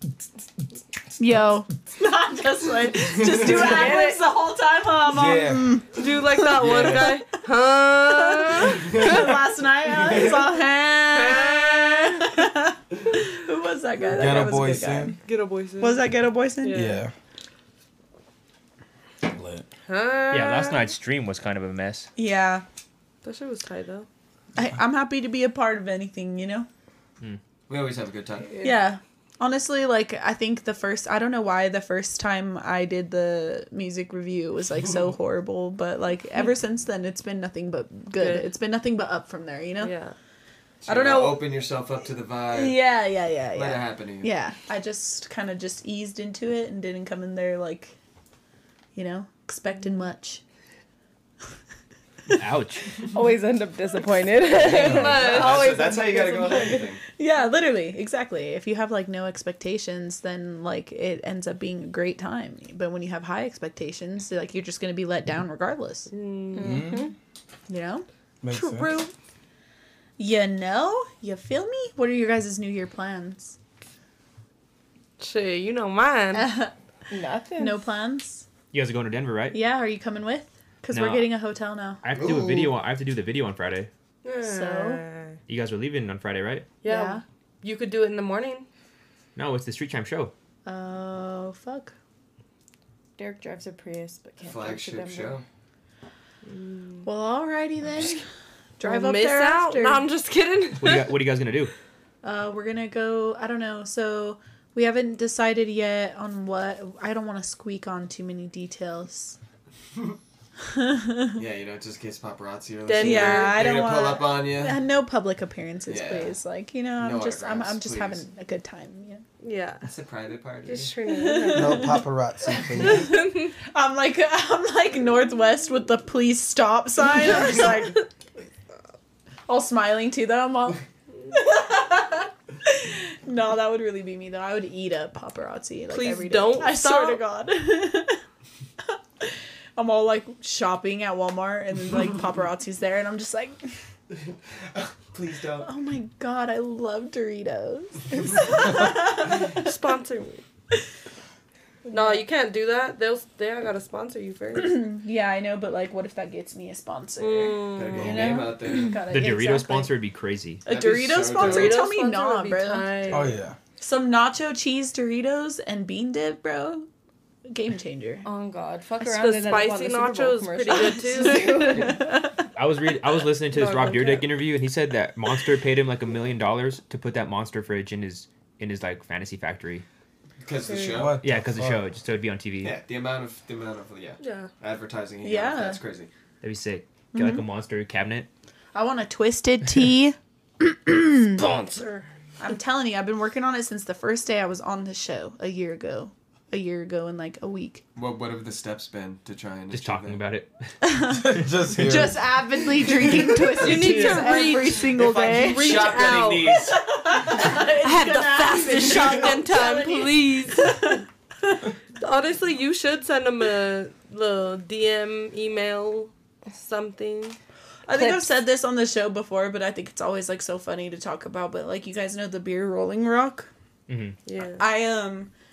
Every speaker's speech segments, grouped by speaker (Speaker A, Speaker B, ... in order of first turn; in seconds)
Speaker A: 1.2-7.2, 8.1-15.2, 15.8-16.9, 22.2-22.6, 24.6-26.7, 28.6-39.9, 40.9-41.5, 42.5-48.0, 49.0-50.4, 57.2-66.1, 67.7-68.1, 68.7-69.0, 70.2-73.6, 76.3-76.7, 77.6-78.5, 79.5-82.0, 84.4-85.0, 86.8-87.2, 90.7-91.9, 97.0-98.2, 98.8-100.1, 102.2-109.4, 110.7-111.4, 113.0-119.2, 121.1-122.0, 123.7-128.0, 129.5-130.8, 131.3-138.2, 138.9-143.7, 145.6-149.6, 151.8-152.2, 154.6-160.0, 160.7-166.9, 167.5-168.3, 171.2-172.4, 185.2-185.8, 187.1-187.4, 188.7-191.4, 192.4-197.8, 200.8-211.6, 217.9-223.5, 224.6-225.3
Speaker B: 3.5-4.2, 6.0-9.3, 11.1-12.3, 15.2-16.0, 16.6-17.0, 19.9-20.9, 23.2-24.1, 38.2-38.5, 39.8-40.1, 54.6-56.0, 66.1-66.9, 68.5-69.1, 75.2-76.5, 84.2-85.4, 86.8-88.7, 96.5-97.1, 98.8-101.2, 112.9-113.6, 119.4-119.8, 120.7-122.0, 122.9-123.5, 135.9-137.2, 148.8-150.4, 151.9-154.9, 157.2-158.5, 161.3-163.3, 169.0-171.7, 173.5-174.3, 180.8-181.1, 184.2-184.5, 191.4-192.1, 203.6-206.7, 207.8-211.0, 212.0-217.4, 224.3-224.6
Speaker C: 3.6-4.0, 53.1-56.9, 66.5-67.1, 77.1-77.8, 93.2-95.4, 168.2-172.0, 208.0-208.7, 217.9-218.3
Speaker D: 5.1-5.8, 6.6-7.1, 14.2-15.2, 16.7-17.1, 19.2-19.6, 54.6-55.0, 66.6-67.1, 68.4-68.9, 121.5-123.1, 163.1-163.6, 180.9-181.8, 201.1-202.2
Speaker E: 6.6-7.0, 10.1-10.4, 27.7-28.6, 40.8-42.9, 43.5-44.3, 55.1-57.0, 82.1-82.7, 94.4-95.5, 111.4-114.8, 115.9-116.4, 117.0-118.2, 119.8-121.0, 145.1-145.7, 157.7-159.0, 160.7-161.9, 180.4-181.2, 182.6-186.1, 198.0-200.3, 203.6-206.8
Speaker F: 20.3-22.1, 52.3-53.0, 78.7-79.6, 80.9-81.4, 82.0-83.9, 85.5-86.7, 89.3-90.3, 100.8-101.7, 159.1-160.6, 172.5-179.8, 181.2-182.8, 186.4-188.3, 199.7-200.7, 223.9-224.2